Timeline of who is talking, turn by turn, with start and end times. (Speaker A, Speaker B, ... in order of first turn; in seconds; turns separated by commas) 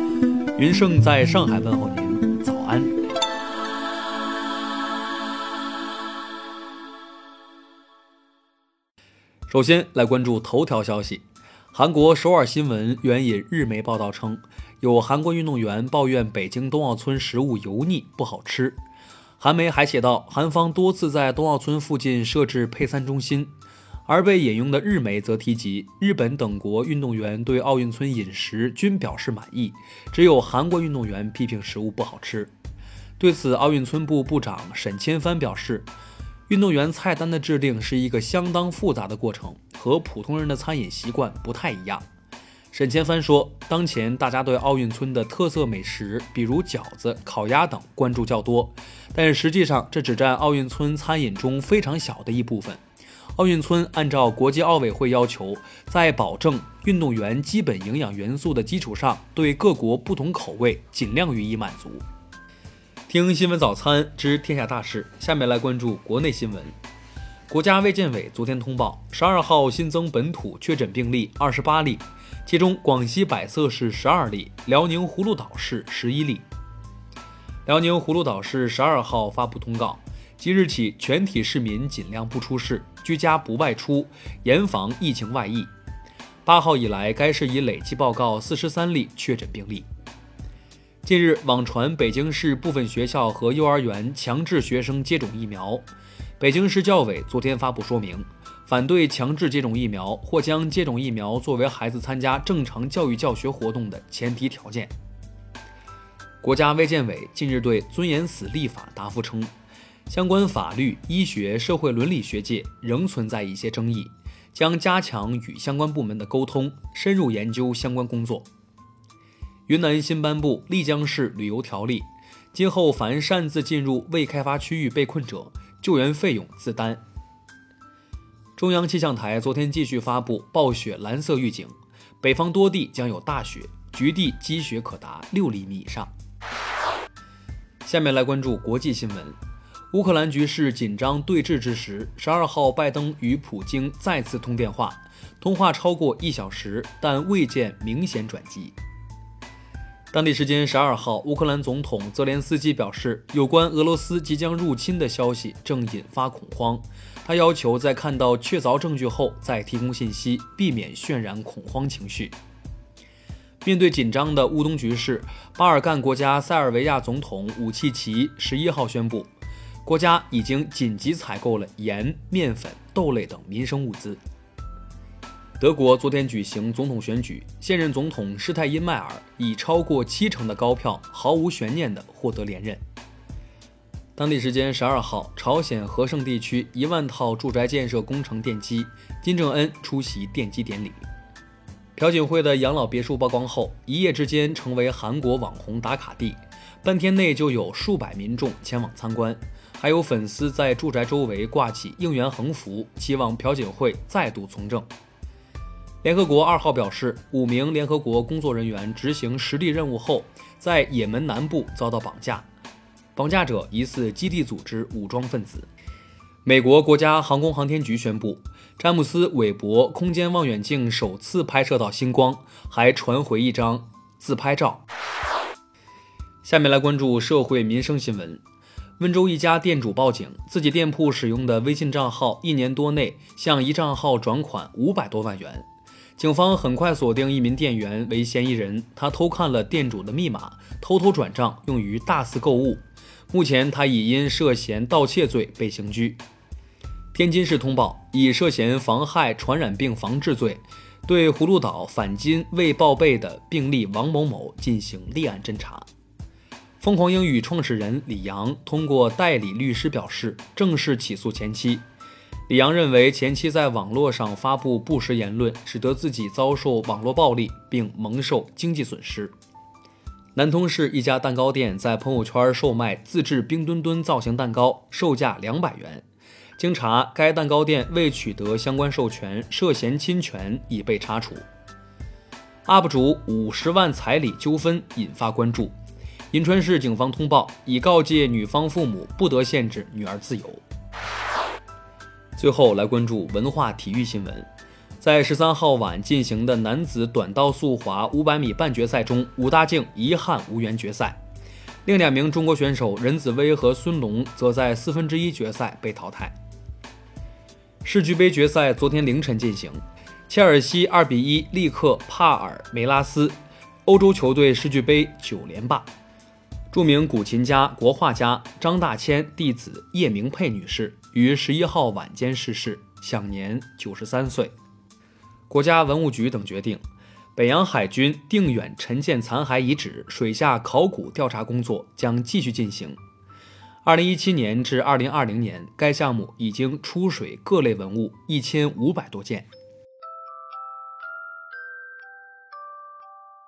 Speaker A: 0.6-3.0, Speaker A: 9.5-18.8, Speaker A: 19.4-23.5, Speaker A: 24.1-32.5, Speaker A: 33.2-35.9, Speaker A: 36.5-42.0, Speaker A: 42.7-52.8, Speaker A: 53.4-62.0, Speaker A: 63.1-66.8, Speaker A: 67.5-76.5, Speaker A: 77.7-85.7, Speaker A: 86.5-89.9, Speaker A: 91.0-95.8, Speaker A: 96.4-104.9, Speaker A: 106.4-109.5, Speaker A: 110.1-118.5, Speaker A: 119.7-127.0, Speaker A: 128.6-136.1, Speaker A: 137.8-139.4, Speaker A: 139.9-148.8, Speaker A: 150.1-162.3, Speaker A: 163.6-169.3, Speaker A: 169.8-174.2, Speaker A: 175.6-182.8, Speaker A: 184.2-191.1, Speaker A: 192.0-204.9, Speaker A: 206.0-212.5, Speaker A: 213.2-215.7, Speaker A: 216.4-224.8, Speaker A: 226.4-228.4, Speaker A: 229.0-235.7, Speaker A: 236.2-246.2, Speaker A: 247.1-255.9, Speaker A: 256.8-261.9, Speaker A: 262.5-269.3, Speaker A: 270.4-276.1, Speaker A: 276.6-281.5, Speaker A: 282.6-285.8, Speaker A: 286.3-290.6, Speaker A: 292.4-294.5, Speaker A: 295.0-301.2, Speaker A: 301.9-306.4, Speaker A: 307.8-315.9, Speaker A: 316.7-324.5, Speaker A: 325.5-326.8, Speaker A: 327.4-333.0, Speaker A: 333.8-339.5